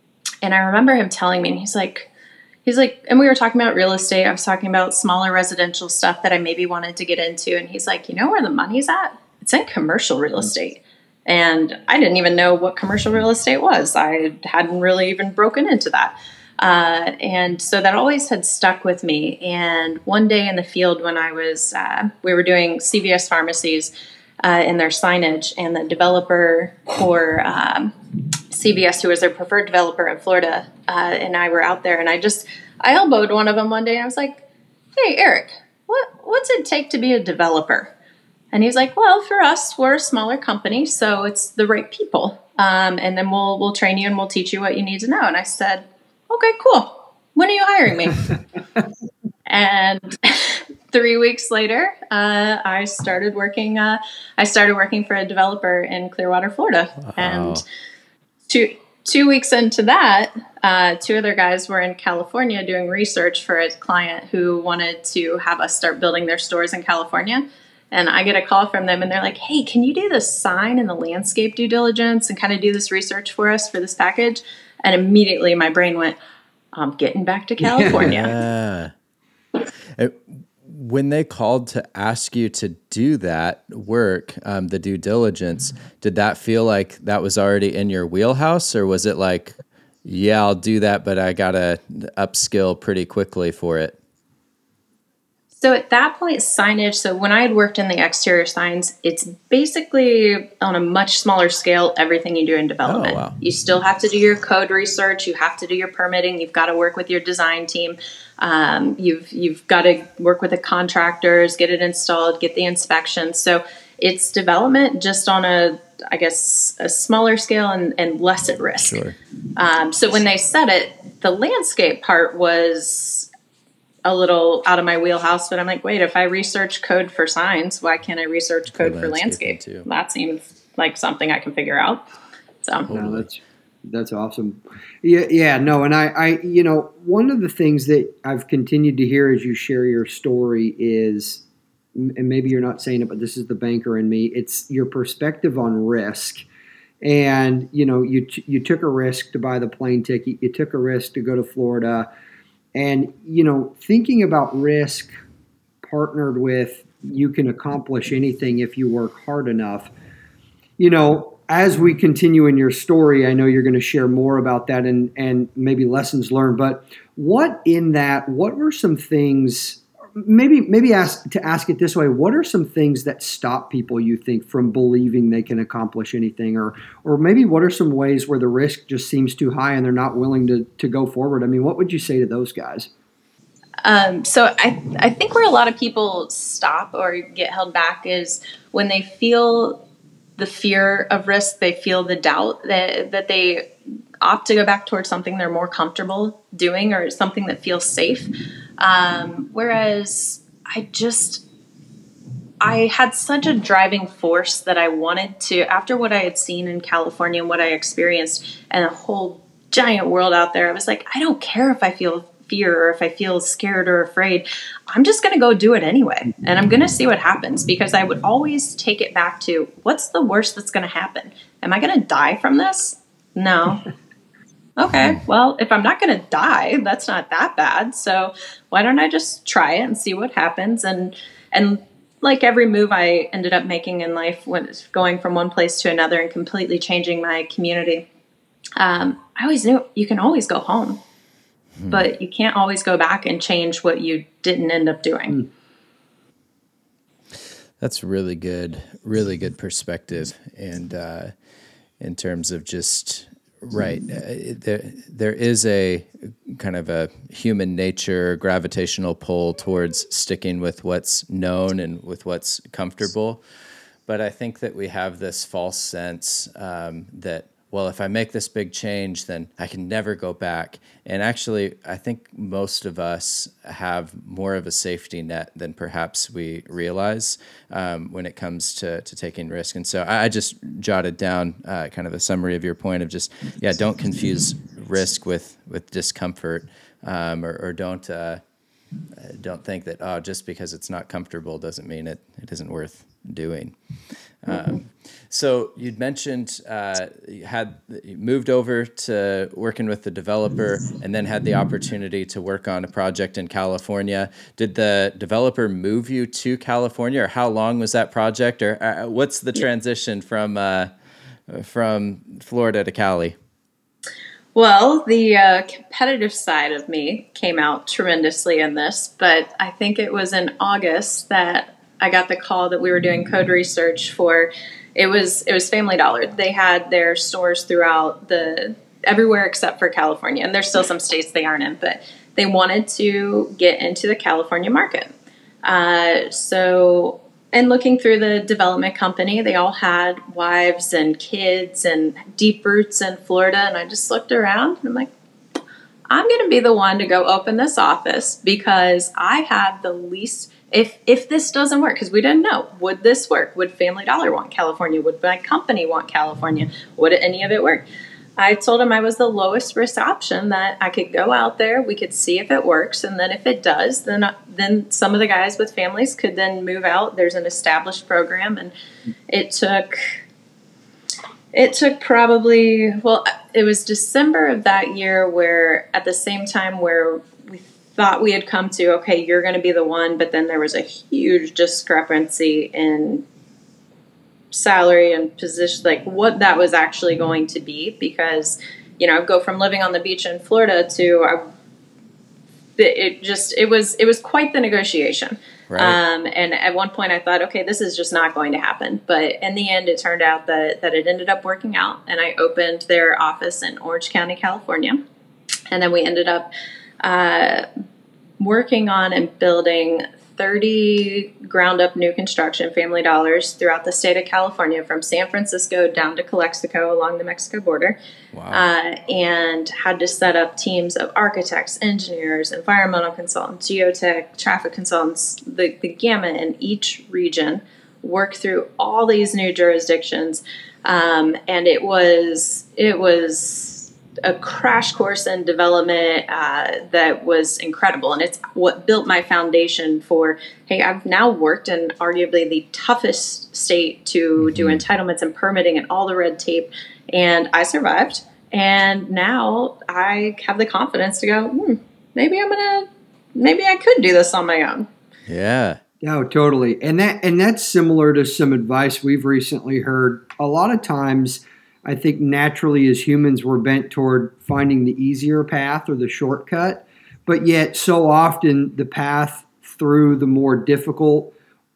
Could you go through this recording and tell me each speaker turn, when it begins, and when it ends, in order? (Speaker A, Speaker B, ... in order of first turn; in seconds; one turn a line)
Speaker A: 0.4-2.1
Speaker A: 2.6-27.9
Speaker A: 28.5-34.4
Speaker A: 35.0-37.9
Speaker A: 38.5-48.3
Speaker A: 49.5-57.6
Speaker B: 57.0-57.6
Speaker A: 58.5-76.2
Speaker A: 76.7-78.3
Speaker C: 77.6-78.1
Speaker B: 77.9-78.9
Speaker B: 79.9-94.0
Speaker A: 95.5-119.0
Speaker B: 102.8-103.4
Speaker B: 118.8-119.2
Speaker A: 119.5-123.3
Speaker A: 124.0-132.1
Speaker B: 128.7-129.9
Speaker A: 132.6-132.9
Speaker B: 132.9-133.3
Speaker C: 132.9-141.4
Speaker C: 141.9-146.4
Speaker C: 147.0-152.1
Speaker C: 152.7-155.1
Speaker C: 155.8-159.9
Speaker C: 160.8-182.9
Speaker A: 183.8-189.8
Speaker A: 190.4-193.7
Speaker A: 194.2-201.4
Speaker A: 202.6-223.8
Speaker A: 224.8-238.1
Speaker A: 238.8-241.0
Speaker B: 241.8-242.1
Speaker A: 241.9-245.4
Speaker B: 247.8-251.3
Speaker B: 252.0-263.4
Speaker B: 264.1-288.4
Speaker B: 289.1-293.7
Speaker B: 294.4-310.9
Speaker B: 311.5-313.4
Speaker A: 314.5-335.1
Speaker A: 335.6-345.1
Speaker A: 346.1-357.8
Speaker A: 358.4-368.7
Speaker A: 369.3-370.2
Speaker A: 371.5-383.2
Speaker A: 384.5-391.5
Speaker A: 392.8-405.0
Speaker B: 395.7-396.0
Speaker A: 405.7-406.5
Speaker A: 407.0-407.6
Speaker A: 408.4-417.9
Speaker B: 418.3-418.6
Speaker A: 418.5-454.9
Speaker B: 444.4-444.8
Speaker B: 455.3-455.8
Speaker C: 456.0-471.3